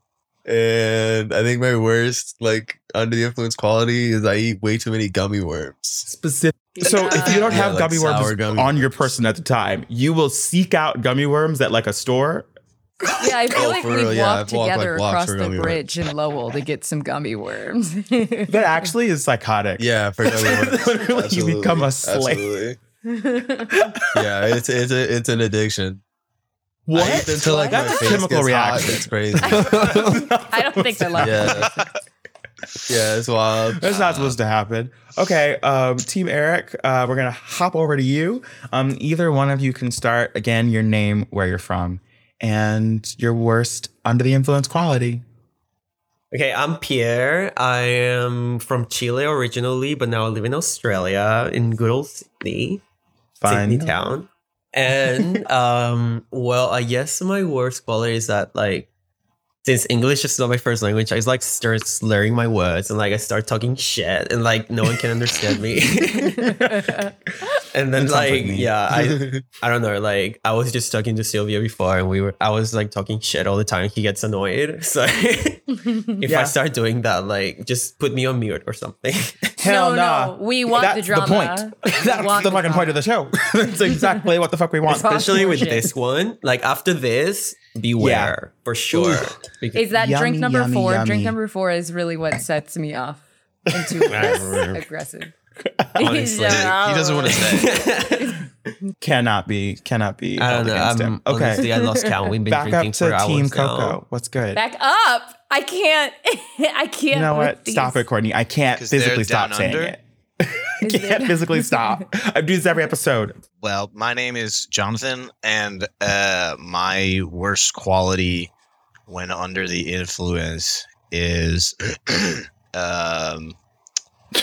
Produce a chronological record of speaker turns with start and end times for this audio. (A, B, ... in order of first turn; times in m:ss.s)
0:00.5-0:06.1 A
0:06.1-0:12.5 B
0:06.8-0:07.6 C
0:07.2-0:09.1 A
0:13.2-0:18.9 C
0:13.5-0:15.9 A
0:18.5-0:22.5 B
0:19.8-0:22.8 A
0:23.1-0:23.8 C
0:23.8-0:24.3 B
0:24.1-0:26.0 A
0:26.9-0:31.5 B
0:26.9-0:30.1 A
0:27.4-0:28.2 C
0:29.4-0:31.8 C
0:31.2-0:31.8 A
0:32.9-0:33.9 A
0:33.8-0:45.2 B
0:33.9-0:34.3 D
0:46.3-0:52.8 E
0:53.4-0:54.0 B
0:53.4-0:58.9 E
0:59.6-1:06.8 E
1:06.5-1:06.8 B
1:07.7-1:19.5 E
1:08.0-1:08.7 B
1:08.9-1:09.4 A
1:16.3-1:16.6 B
1:19.6-1:23.0 C
1:19.6-1:25.7 B
1:24.9-1:25.9 C
1:24.9-1:29.9 E
1:28.0-1:28.3 B
1:28.9-1:29.3 B
1:29.8-1:35.3 C
1:29.9-1:31.4 B
1:33.7-1:34.4 B
1:35.8-1:36.2 B
1:36.0-1:37.6 C
1:36.0-1:38.4 E
1:36.4-1:37.8 D
1:39.0-1:41.6 B
1:40.4-1:44.0 E
1:41.6-1:42.1 C
1:42.4-1:44.6 B
1:44.6-1:48.0 C
1:47.1-1:53.4 B
1:48.8-1:50.0 D
1:50.8-1:52.0 C
1:53.6-1:58.5 D
1:59.1-2:03.6 D